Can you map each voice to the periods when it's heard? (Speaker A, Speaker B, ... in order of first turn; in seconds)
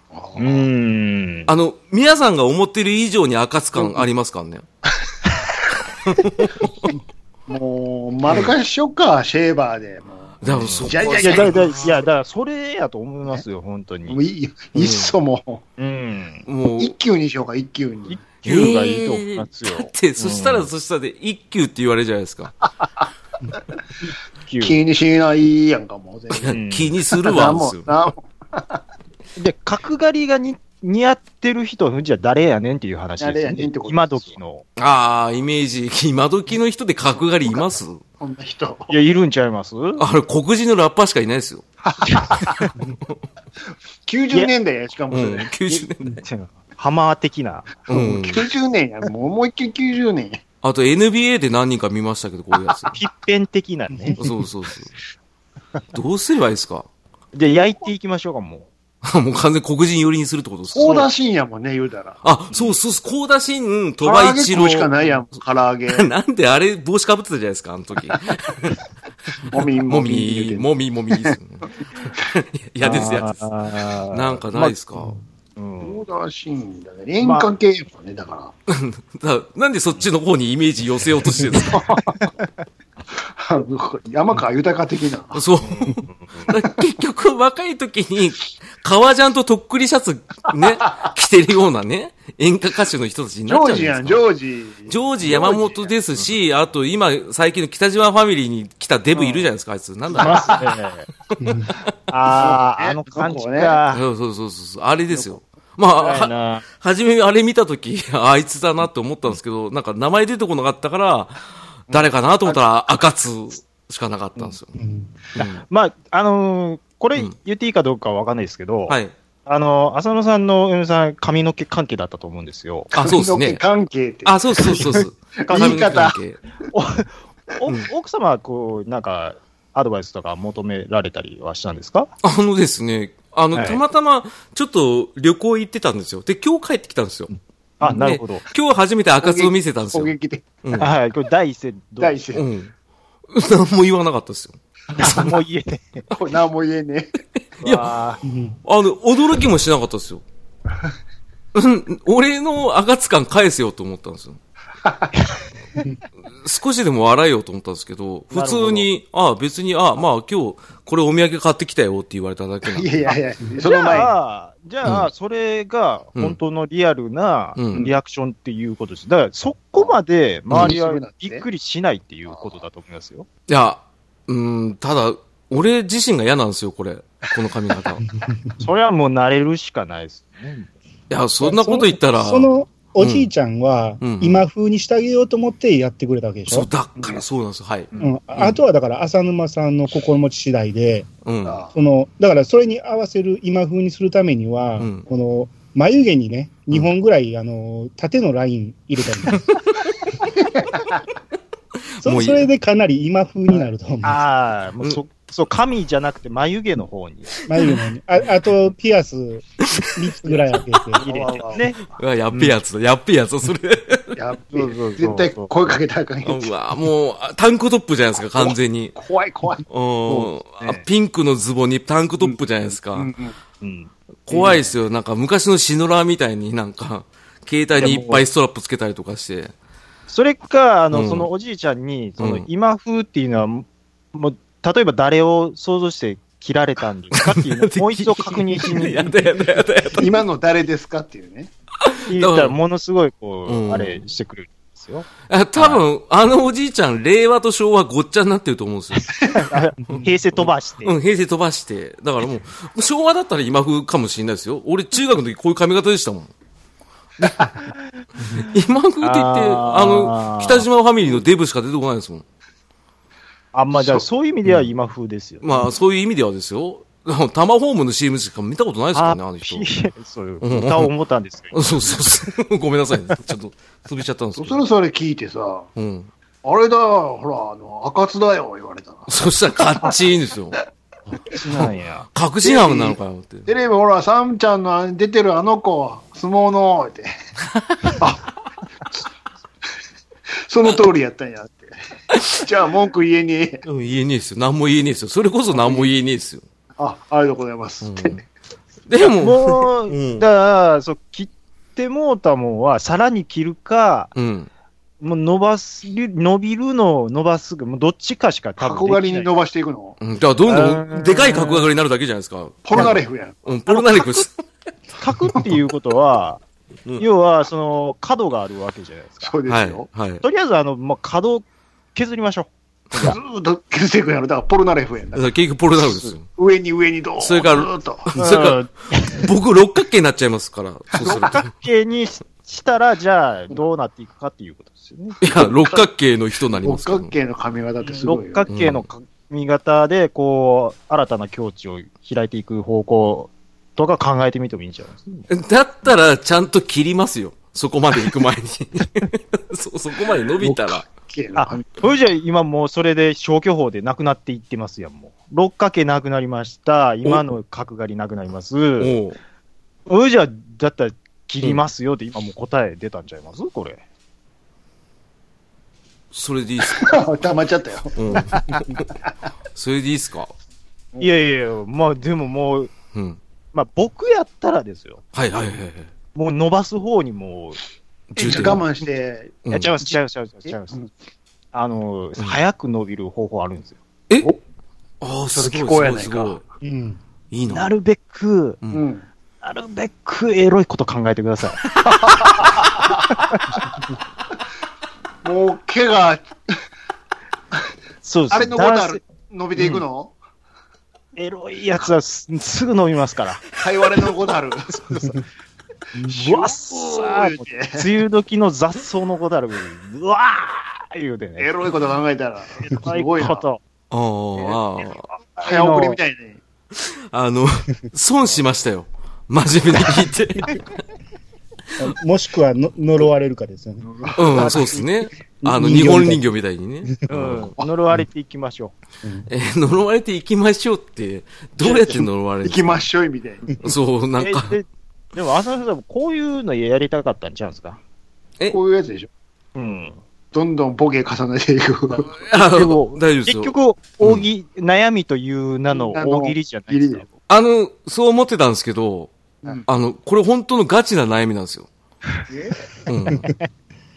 Speaker A: 0.1-0.7, 7.5-11.8, 14.1-15.6, 16.8-18.2, 24.6-26.6, 27.1-28.8, 33.2-34.4, 38.2-39.0, 42.1-42.6, 44.0-45.5, 47.9-50.4, 60.7-62.2, 64.0-66.1, 69.5-71.3, 75.8-78.5, 81.6-82.3, 83.4-85.4, 93.5-95.9, 100.1-100.6, 102.3-103.8, 111.9-112.6, 122.9-126.2, 139.2-140.5, 142.0-142.4, 146.1-147.2, 154.8-155.1, 162.7-164.1, 170.5-171.5, 172.3-172.6, 191.4-191.7, 200.4-201.0, 211.0-211.8, 214.2-216.5, 218.4-220.2, 222.9-223.4, 240.0-241.5, 249.2-249.5, 257.2-257.5, 263.7-264.0, 274.4-275.7, 276.4-279.2, 282.4-287.1, 288.0-288.3, 290.5-291.7, 292.4-293.6, 295.5-295.9, 296.8-298.2, 308.6-310.0, 312.6-313.4, 319.2-319.9, 323.0-325.3, 326.4-328.1, 331.0-331.3, 335.3-335.9, 336.6-338.5, 350.4-351.9, 366.6-368.6, 378.2-379.4, 380.5-380.9, 385.3-386.4, 388.7-389.1, 391.8-393.0, 395.2-396.3, 398.3-400.1, 403.6-405.2, 406.1-407.9, 411.4-413.4, 415.2-416.4, 423.9-424.8, 431.6-433.5, 438.5-439.1, 440.3-442.2, 445.7-447.0, 452.3-452.6
Speaker B: 0.4-1.5, 10.5-14.2, 15.8-16.5, 18.1-20.7, 24.5-24.8, 26.5-26.9, 29.4-34.6, 38.9-40.0, 42.1-42.5, 45.7-48.2, 52.9-54.2, 57.3-58.7, 72.8-76.0, 77.2-77.5, 85.6-86.5, 99.1-99.5, 100.2-101.1, 102.1-104.0, 106.0-106.6, 115.4-122.9, 124.8-126.0, 126.7-132.1, 133.5-133.8, 137.8-138.4, 140.8-142.2, 144.9-146.1, 147.6-148.2, 158.3-158.9, 163.1-173.3, 178.6-180.7, 204.0-207.3, 211.0-211.8, 214.5-215.5, 220.1-220.8, 223.6-224.7, 227.8-228.3, 230.1-239.2, 242.1-245.8, 249.3-251.0, 259.0-260.7, 263.5-265.7, 268.9-272.1, 281.3-282.1, 299.0-304.1, 305.0-309.3, 310.5-311.7, 312.7-313.0, 313.7-314.3, 315.0-316.4, 317.0-319.3, 320.2-323.2, 325.9-326.1, 328.2-329.3, 331.0-335.2, 337.8-345.3, 351.4-358.9, 359.9-363.8, 371.0-372.7, 373.5-375.0, 376.1-377.6, 378.2-378.5, 379.5-380.8, 381.5-383.8, 387.5-388.6, 389.4-391.6, 393.1-393.4, 398.0-399.0, 401.2-403.4, 404.9-405.2, 406.1-411.5, 412.6-413.6, 415.4-416.0, 427.1-428.7, 434.2-437.8, 439.6-440.0, 442.3-447.1
Speaker C: 1.5-4.6, 6.1-6.5, 10.4-12.0, 14.8-15.1, 16.5-16.9, 18.4-22.6, 26.3-27.9, 34.8-38.0, 40.0-41.6, 45.1-46.2, 47.9-48.4, 50.6-53.0, 54.2-54.9, 55.9-56.9, 59.0-61.1, 62.2-64.9, 65.9-68.8, 69.9-73.4, 74.1-75.1, 78.7-81.8, 85.3-94.2, 94.9-100.7, 103.9-114.7, 115.4-115.6, 122.9-123.6, 124.2-126.4, 132.2-137.3, 137.8-140.9, 142.3-142.7, 143.3-145.3, 147.6-147.9, 148.7-150.2, 151.5-154.4, 156.4-162.9, 167.6-167.9, 173.5-178.1, 181.1-183.3, 184.0-184.4, 186.5-188.6, 191.2-191.6, 194.8-195.1, 202.0-202.5, 209.7-209.9, 212.0-214.2, 216.2-219.0, 219.7-223.1, 224.3-229.5, 230.9-231.3, 232.2-232.5, 237.1-240.2, 241.8-242.6, 243.5-244.0, 245.3-249.3, 249.9-256.3, 258.3-262.2, 265.4-269.7, 270.4-270.9, 271.5-274.6, 275.8-276.1, 279.1-280.6, 281.6-283.5, 287.6-288.0, 292.1-292.4, 293.6-296.4, 297.8-298.2, 298.9-300.3, 304.1-304.5, 310.0-314.4, 319.5-320.2, 325.1-326.3, 327.2-331.5, 335.2-337.1, 338.5-338.8, 345.3-350.9, 358.8-359.2, 366.1-367.0, 368.0-368.8, 369.6-370.3, 372.9-373.2, 375.1-375.9, 378.1-378.6, 385.0-386.4, 387.3-387.7, 413.9-415.1, 416.8-420.8, 424.2-427.5, 429.3-432.9, 433.6-434.6, 442.1-444.2, 447.3-449.1, 449.7-451.7, 452.9-453.3
Speaker D: 101.4-101.7, 114.8-115.1, 148.2-148.6, 181.4-186.7, 188.0-191.1, 191.7-199.6, 202.0-204.2, 207.5-211.1, 386.6-387.0, 421.8-423.9, 425.4-426.2